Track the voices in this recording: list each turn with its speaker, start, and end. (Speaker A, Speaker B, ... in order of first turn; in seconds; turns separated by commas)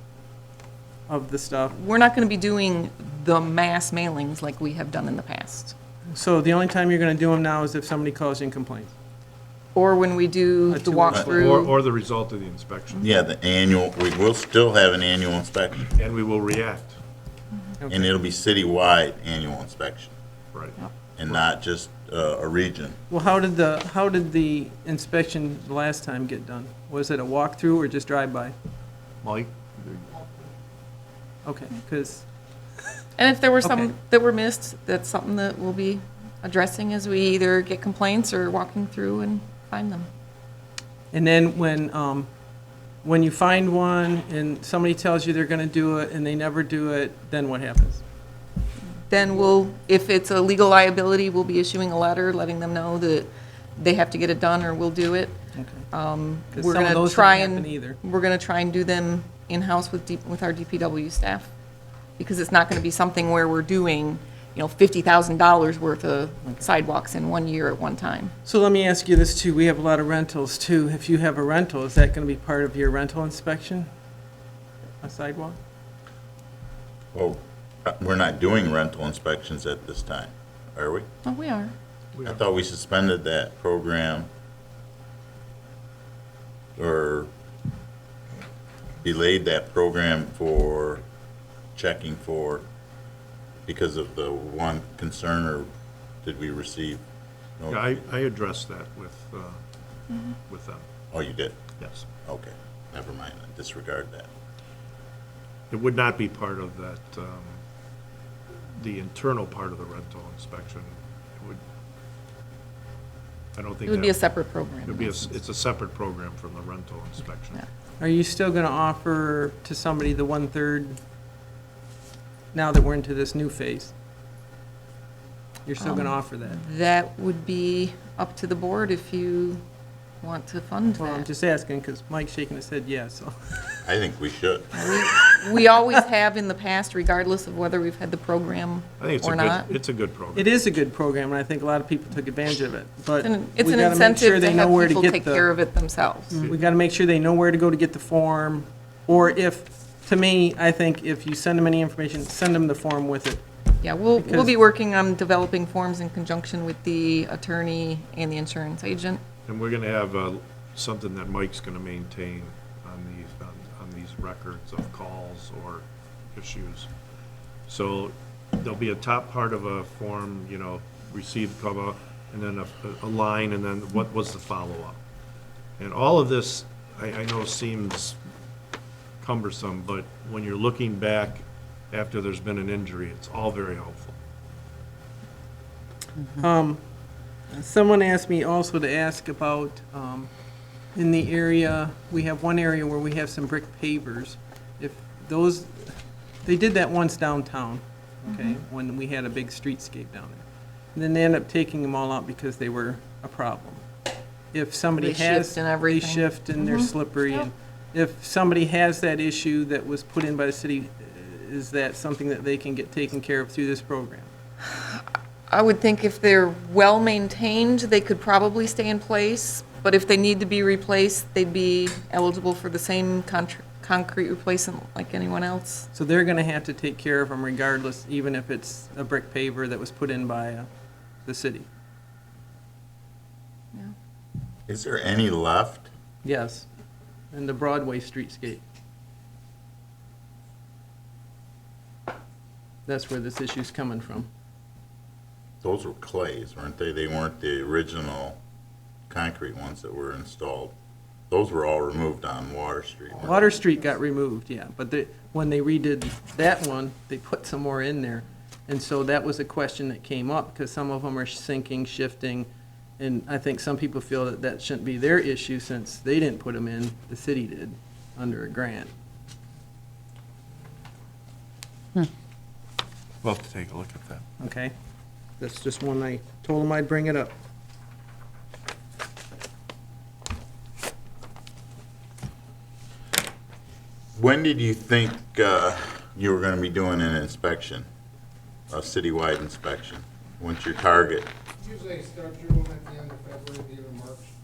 Speaker A: 1.1-1.8, Speaker B: 1.7-5.7, Speaker A: 6.1-8.9, Speaker B: 9.8-11.7, Speaker A: 10.7-11.6, Speaker C: 11.3-13.1, Speaker D: 13.0-15.9, Speaker C: 16.0-17.0, Speaker A: 17.8-18.1, Speaker D: 17.9-20.1, Speaker C: 20.5-20.8, Speaker D: 21.2-23.0, Speaker A: 23.1-28.6, Speaker C: 29.2-30.3, Speaker A: 31.4-32.2, Speaker B: 33.2-40.1, Speaker A: 41.1-42.3, Speaker A: 43.0-48.0, Speaker B: 49.1-55.4, Speaker A: 49.2-49.5, Speaker A: 55.5-55.9, Speaker B: 55.9-61.5, Speaker A: 56.5-58.0, Speaker B: 62.2-68.3, Speaker A: 68.5-73.9, Speaker A: 75.0-75.6, Speaker D: 77.1-81.1, Speaker B: 81.2-81.7, Speaker D: 82.2-84.3, Speaker D: 86.8-87.3, Speaker D: 89.0-91.0, Speaker D: 91.8-92.7, Speaker D: 93.7-95.7, Speaker D: 96.2-97.0, Speaker D: 97.6-98.0, Speaker C: 97.7-99.6, Speaker C: 100.5-100.9, Speaker D: 101.1-101.7, Speaker C: 101.8-102.0, Speaker D: 102.2-104.3, Speaker C: 105.7-107.6, Speaker C: 108.8-111.6, Speaker C: 113.5-114.3, Speaker B: 113.8-115.3, Speaker C: 114.8-117.6, Speaker A: 118.0-121.0, Speaker A: 122.5-123.9, Speaker A: 125.7-126.6, Speaker B: 125.8-129.6, Speaker B: 130.2-131.3, Speaker A: 131.0-133.6, Speaker D: 133.8-134.9, Speaker B: 134.7-139.7, Speaker C: 139.0-140.6, Speaker A: 140.3-145.4, Speaker B: 143.2-146.4, Speaker A: 146.3-153.4, Speaker B: 153.8-159.2, Speaker A: 154.2-154.5, Speaker C: 159.5-166.9, Speaker C: 167.7-175.0, Speaker C: 175.8-178.2, Speaker C: 179.2-184.2, Speaker A: 186.3-186.8, Speaker A: 187.5-190.3, Speaker A: 190.9-203.9, Speaker B: 198.3-198.6, Speaker A: 204.5-214.3, Speaker B: 205.0-207.5, Speaker B: 214.7-225.9, Speaker A: 225.9-230.7, Speaker A: 231.2-231.7, Speaker D: 234.7-235.9, Speaker A: 236.2-236.7, Speaker A: 237.3-238.6, Speaker A: 242.9-244.3, Speaker D: 245.6-248.4, Speaker D: 249.1-250.7, Speaker D: 251.3-253.4, Speaker A: 253.2-268.9, Speaker C: 273.2-274.2, Speaker A: 274.4-274.7, Speaker A: 275.4-277.3, Speaker D: 284.1-287.9, Speaker D: 288.7-291.3, Speaker E: 291.6-294.3